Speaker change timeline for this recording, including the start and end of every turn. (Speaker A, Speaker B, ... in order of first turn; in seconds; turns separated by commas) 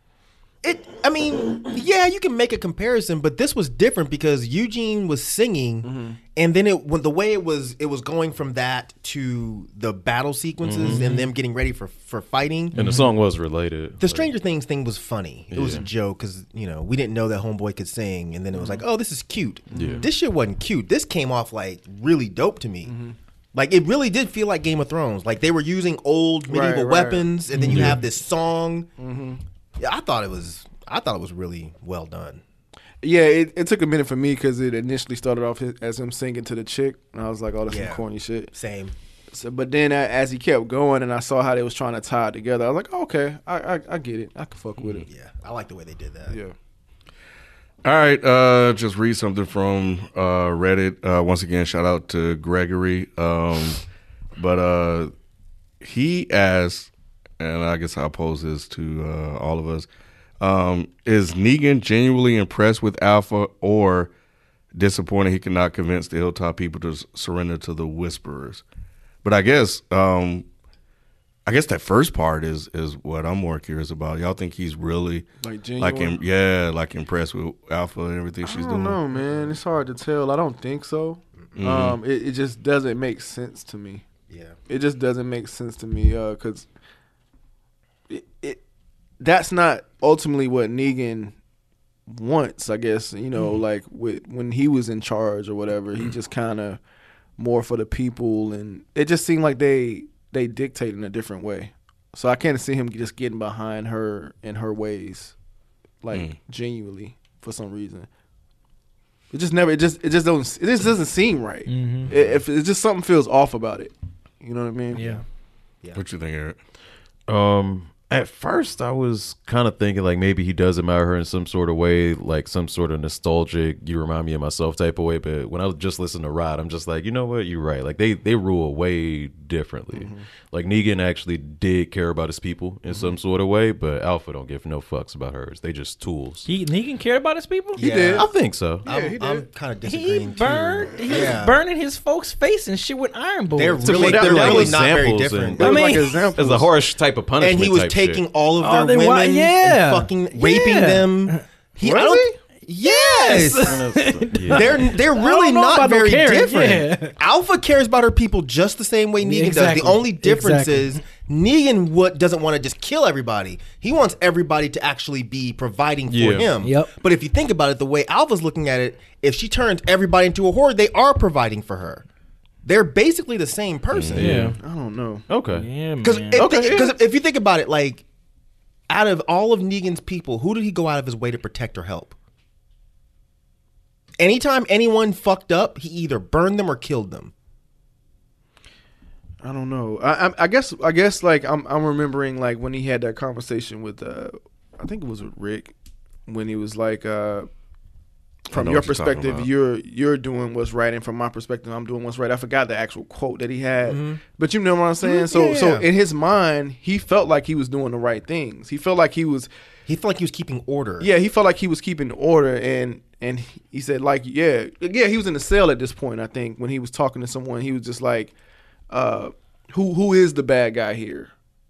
Speaker A: 0.6-12.8, Speaker B: 5.8-6.2, Speaker C: 10.6-11.0, Speaker D: 10.9-11.3, Speaker C: 12.7-14.3, Speaker D: 12.8-13.1, Speaker A: 14.0-22.9, Speaker C: 15.5-15.8, Speaker B: 18.5-18.8, Speaker C: 19.7-20.1, Speaker B: 19.7-20.1, Speaker B: 22.8-23.1, Speaker A: 23.5-28.9, Speaker B: 26.5-27.9, Speaker D: 27.5-28.0, Speaker B: 29.0-29.4, Speaker A: 29.8-32.4, Speaker B: 33.0-38.5, Speaker A: 37.7-38.9, Speaker B: 39.3-45.0, Speaker A: 45.0-46.4, Speaker B: 46.3-46.5, Speaker E: 47.8-53.8, Speaker E: 54.4-55.1, Speaker E: 55.8-59.9, Speaker E: 60.4-64.1, Speaker E: 64.7-68.6, Speaker E: 69.2-70.5, Speaker E: 71.5-75.2, Speaker B: 75.4-76.2, Speaker E: 75.8-79.0, Speaker B: 78.4-84.0, Speaker E: 81.6-82.0, Speaker A: 84.3-84.6, Speaker B: 84.7-86.7, Speaker B: 88.1-88.6, Speaker B: 89.2-91.3, Speaker B: 92.1-96.8, Speaker B: 97.4-105.3, Speaker B: 106.0-108.1, Speaker B: 109.3-115.0, Speaker D: 111.7-112.1, Speaker D: 114.9-115.2, Speaker A: 114.9-115.2, Speaker E: 115.9-116.6, Speaker C: 117.3-136.5, Speaker B: 129.9-130.2, Speaker D: 136.4-137.8, Speaker A: 137.8-138.3, Speaker B: 137.8-138.3, Speaker C: 138.1-138.8, Speaker B: 138.8-139.4, Speaker A: 138.8-141.6, Speaker D: 139.8-144.5, Speaker A: 143.5-146.0, Speaker C: 143.8-148.2, Speaker B: 144.0-144.8, Speaker B: 145.6-146.7, Speaker D: 145.6-146.2, Speaker A: 147.4-153.8, Speaker D: 148.6-151.4, Speaker B: 151.8-152.3, Speaker D: 152.8-157.2, Speaker C: 153.6-154.9, Speaker A: 154.5-172.0, Speaker D: 159.2-161.0, Speaker C: 166.1-166.5, Speaker D: 166.6-166.9, Speaker A: 172.6-174.3, Speaker E: 173.9-174.2, Speaker C: 174.1-174.6, Speaker D: 174.2-174.6, Speaker B: 174.6-175.3, Speaker C: 175.3-175.7, Speaker D: 175.5-176.5, Speaker A: 176.0-178.0, Speaker C: 176.3-176.9, Speaker A: 178.9-182.1, Speaker A: 184.2-187.3, Speaker B: 189.4-195.7, Speaker B: 196.3-197.5, Speaker E: 198.5-199.5, Speaker B: 198.5-209.5, Speaker A: 203.8-204.2, Speaker A: 205.0-205.9, Speaker A: 209.9-211.1, Speaker B: 211.0-218.3, Speaker B: 218.9-221.3